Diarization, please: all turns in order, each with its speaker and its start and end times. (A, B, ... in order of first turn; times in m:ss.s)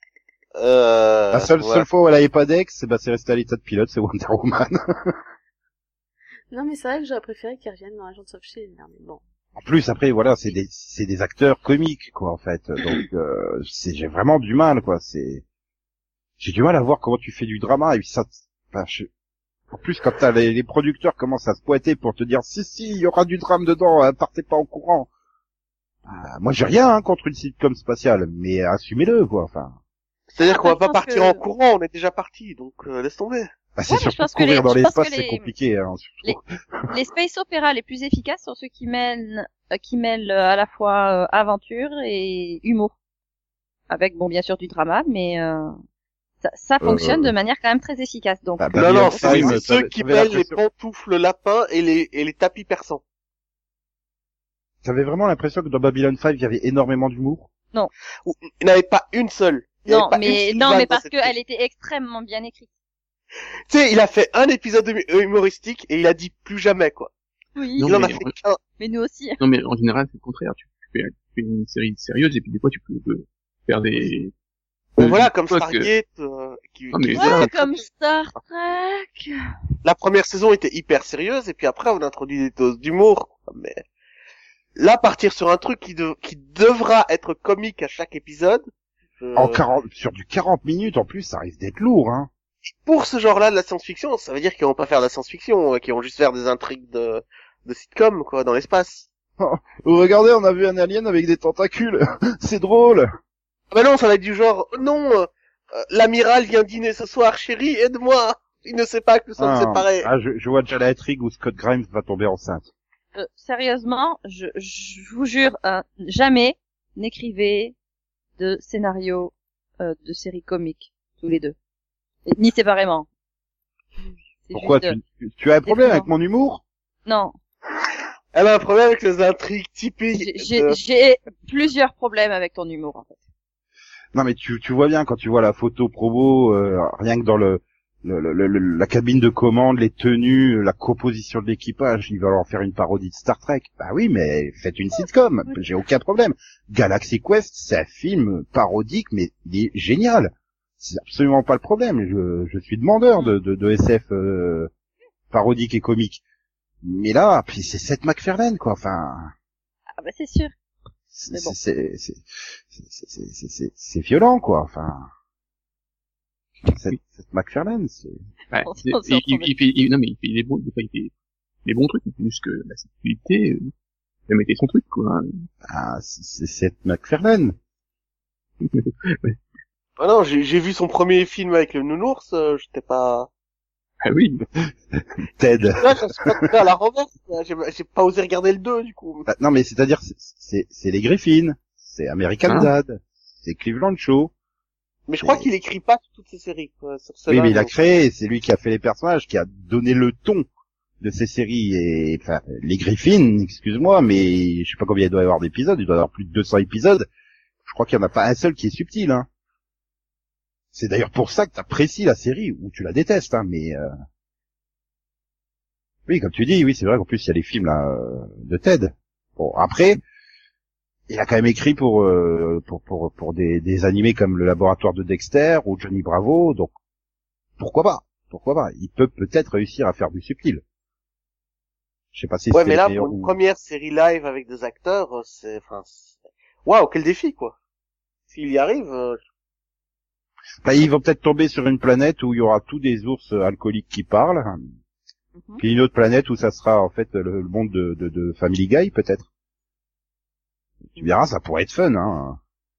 0:00.6-0:01.8 A
0:01.3-0:05.2 B
0:06.5-0:09.2 C
0:09.6-0:15.4 B
0:16.4-0:19.1 B
0:19.7-0:25.1 B
0:26.0-0:29.8 B
0:30.3-0:33.5 A
0:30.4-0:31.4 D
0:33.8-0:36.8 B
0:33.9-0:35.5 D
0:36.9-0:42.9 D
0:43.9-0:45.7 D
0:46.4-0:49.6 D
0:46.8-0:47.3 B
0:48.6-0:50.6 B
0:48.7-0:53.0 A
0:54.8-0:57.5 B
0:58.2-1:01.4 A
0:59.9-1:02.7 D
1:03.7-1:07.1 A
1:07.6-1:08.0 D
1:07.8-1:08.3 E
1:07.8-1:08.6 A
1:08.8-1:09.4 D
1:09.4-1:14.3 E
1:15.0-1:17.6 A
1:15.0-1:15.9 E
1:16.9-1:17.5 E
1:17.2-1:19.3 D
1:19.8-1:23.8 A
1:24.8-1:28.6 A
1:29.2-1:29.6 A
1:29.3-1:32.3 B
1:32.6-1:39.1 A
1:39.4-1:43.1 B
1:43.7-1:50.1 A
1:49.4-1:52.7 B
1:53.1-1:57.7 D
1:58.4-2:01.5 D
2:02.2-2:03.0 D
2:04.4-2:05.0 D
2:04.5-2:06.6 B
2:05.6-2:06.1 D
2:07.0-2:07.3 D
2:08.3-2:10.8 A
2:10.1-2:13.2 D
2:14.1-2:34.7 B
2:35.3-2:36.2 B
2:36.8-2:39.3 B
2:40.0-2:40.5 D
2:41.1-2:45.1 B
2:41.3-2:41.6 D
2:46.7-2:48.2 B
2:48.5-2:51.1 E
2:48.6-2:49.5 D
2:51.6-2:53.7 E
2:54.3-2:55.5 E
2:55.7-2:57.6 B
2:58.6-2:59.4 E
3:00.0-3:03.3 A
3:04.0-3:04.4 E
3:04.9-3:06.3 B
3:05.8-3:09.3 A
3:09.3-3:14.3 B
3:15.1-3:17.8 A
3:15.2-3:15.5 B
3:17.3-3:20.4 B
3:21.0-3:27.1 B
3:27.6-3:29.3 B
3:30.7-3:33.9 B
3:36.1-3:40.0 B
3:41.1-3:46.7 B
3:47.6-3:50.6 B
3:52.1-3:53.3 B
3:52.5-3:57.5 A
3:58.3-3:59.2 A
4:00.6-4:04.6 B
4:05.4-4:05.6 D
4:05.6-4:09.2 B
4:10.9-4:12.4 B